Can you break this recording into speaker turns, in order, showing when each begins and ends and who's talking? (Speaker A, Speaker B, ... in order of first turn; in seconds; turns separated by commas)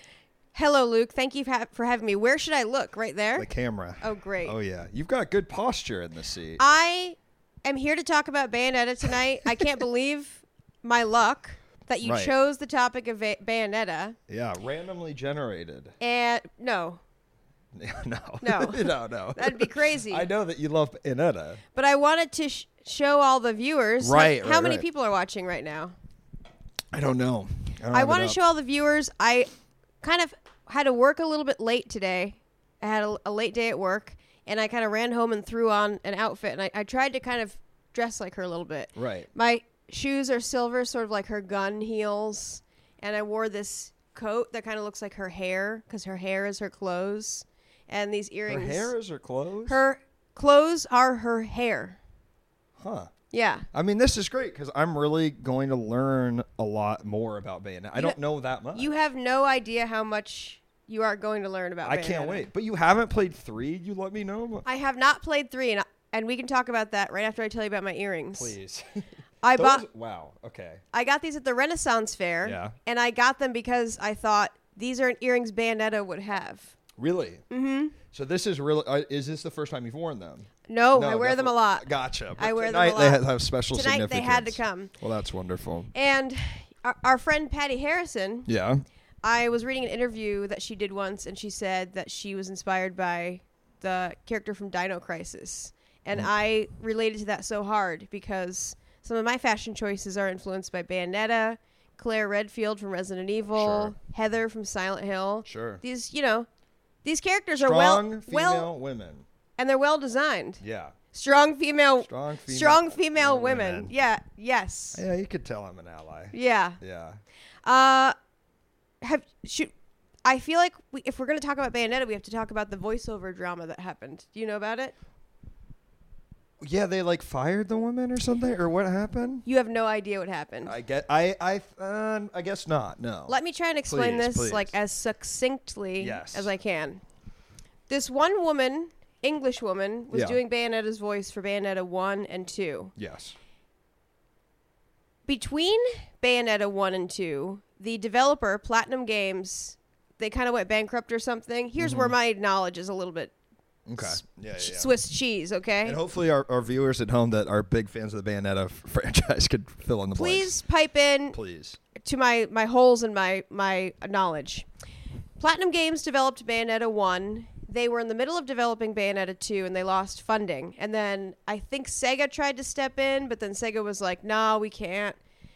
Speaker A: 0.5-3.5, Speaker B: 3.4-6.6, Speaker A: 4.0-4.5, Speaker A: 6.6-14.2, Speaker B: 12.0-12.3, Speaker B: 14.3-15.9, Speaker A: 16.0-17.0, Speaker B: 17.7-21.6, Speaker A: 18.4-20.3, Speaker A: 21.7-25.9, Speaker B: 24.0-24.8, Speaker B: 26.9-28.4, Speaker A: 27.9-29.5, Speaker A: 30.0-48.9, Speaker B: 39.0-39.3, Speaker B: 48.5-49.8, Speaker A: 49.6-52.0, Speaker B: 52.8-53.1, Speaker A: 53.3-53.7, Speaker B: 53.7-58.9, Speaker A: 58.7-62.4, Speaker B: 61.8-64.6, Speaker A: 64.6-68.5, Speaker B: 68.3-70.8, Speaker A: 69.4-69.8, Speaker A: 70.9-76.7, Speaker B: 72.4-72.7, Speaker B: 77.0-77.4, Speaker A: 77.5-78.0, Speaker B: 78.1-85.9, Speaker A: 80.7-84.9, Speaker A: 85.9-88.5, Speaker B: 88.5-88.8, Speaker A: 89.2-106.5, Speaker B: 103.5-103.9, Speaker B: 105.4-105.8, Speaker A: 107.0-108.7, Speaker B: 107.6-109.2, Speaker A: 109.6-110.6, Speaker B: 110.6-111.0, Speaker A: 111.1-115.0, Speaker B: 112.0-113.9, Speaker B: 114.9-117.2, Speaker A: 116.3-116.8, Speaker A: 117.6-118.1, Speaker A: 119.0-119.7, Speaker A: 120.2-124.9, Speaker B: 126.6-129.4, Speaker A: 129.4-130.7, Speaker B: 130.6-134.7, Speaker A: 133.3-137.0, Speaker B: 136.0-136.5, Speaker A: 137.9-142.9, Speaker B: 140.1-140.4, Speaker B: 142.9-143.3, Speaker A: 145.2-153.3, Speaker B: 151.8-152.1, Speaker B: 153.9-154.9, Speaker A: 154.0-156.0, Speaker B: 155.8-160.6, Speaker A: 160.1-161.4, Speaker B: 161.3-161.8, Speaker A: 161.9-164.7, Speaker A: 165.4-175.2